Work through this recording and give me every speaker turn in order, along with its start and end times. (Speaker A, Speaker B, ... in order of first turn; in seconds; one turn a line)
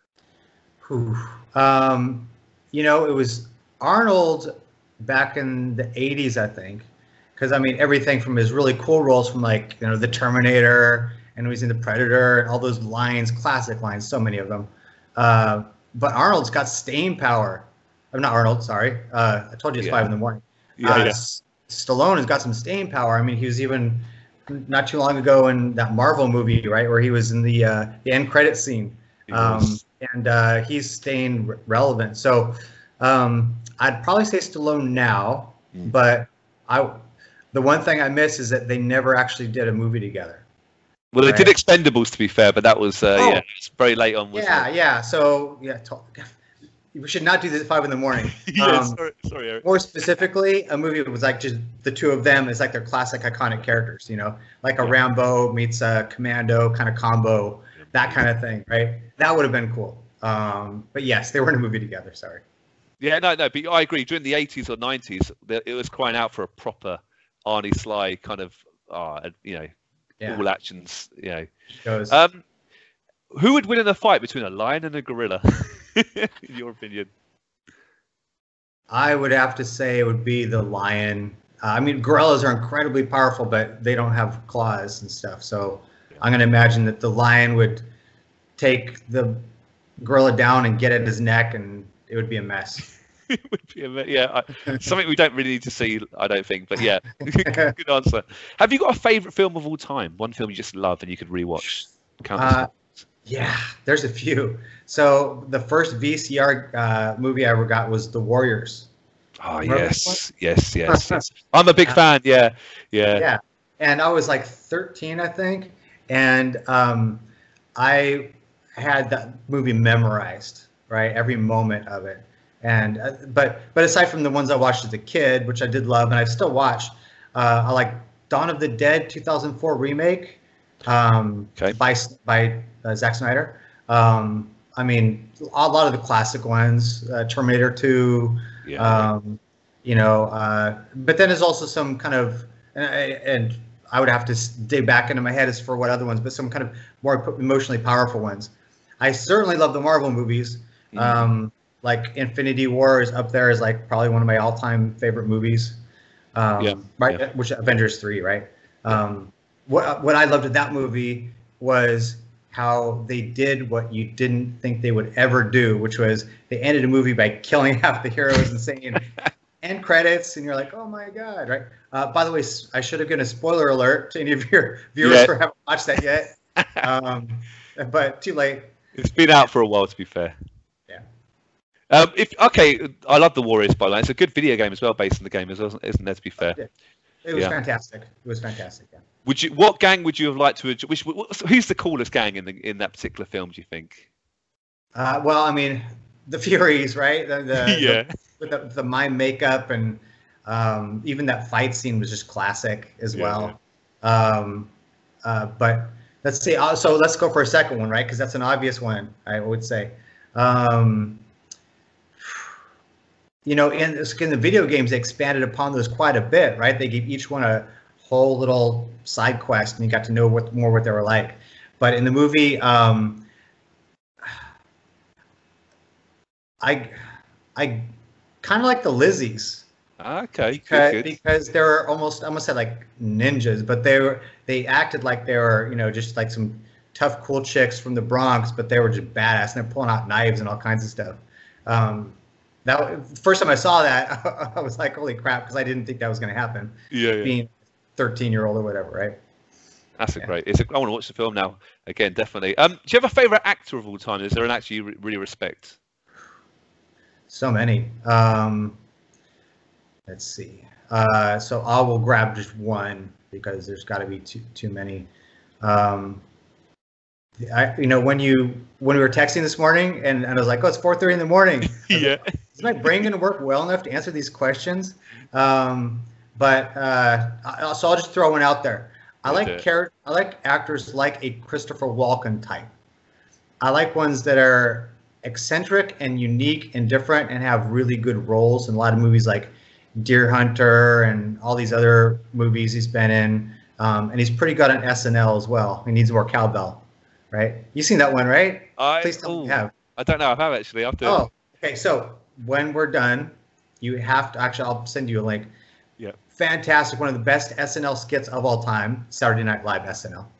Speaker A: 0.8-37.0
Speaker B: 19.8-20.1
Speaker B: 20.8-21.2
Speaker B: 29.3-29.8
Speaker A: 37.5-40.4
Speaker B: 41.1-44.7
Speaker A: 41.2-41.5
Speaker A: 43.1-43.4
Speaker A: 44.3-46.4
Speaker A: 46.9-49.0
Speaker B: 48.2-50.1
Speaker A: 49.6-62.4
Speaker B: 63.0-69.7
Speaker B: 70.2-71.5
Speaker A: 71.8-72.2
Speaker B: 72.1-72.4
Speaker B: 73.3-77.1
Speaker A: 78.9-87.8
Speaker A: 88.6-89.4
Speaker A: 90.0-92.8
Speaker B: 93.3-102.9
Speaker A: 97.4-97.7
Speaker A: 102.3-102.7
Speaker A: 103.2-108.9
Speaker B: 109.4-113.3
Speaker A: 109.6-110.2
Speaker A: 110.9-111.2
Speaker A: 113.1-117.2
Speaker A: 117.8-155.8
Speaker B: 138.6-139.1
Speaker B: 150.9-151.3
Speaker A: 156.3-169.1
Speaker B: 156.6-157.2
Speaker A: 169.6-178.7
Speaker B: 175.0-175.3
Speaker B: 178.9-180.3
Speaker B: 181.9-186.6
Speaker A: 187.2-189.0
Speaker B: 189.2-194.1
Speaker A: 194.9-204.7
Speaker B: 197.6-198.1
Speaker B: 203.1-203.6
Speaker A: 205.2-211.2
Speaker A: 212.2-212.5
Speaker A: 213.4-223.3
Speaker A: 226.6-227.0
Speaker A: 227.5-227.9
Speaker A: 228.4-229.7
Speaker B: 230.0-231.2
Speaker A: 230.5-249.2
Speaker B: 246.9-247.3
Speaker B: 250.0-255.8
Speaker A: 257.3-258.8
Speaker A: 260.1-265.1
Speaker A: 265.6-266.2
Speaker A: 267.4-282.7
Speaker B: 271.7-272.4
Speaker B: 279.2-279.6
Speaker A: 283.6-299.7
Speaker B: 298.8-301.3
Speaker A: 301.0-305.5
Speaker A: 306.3-310.3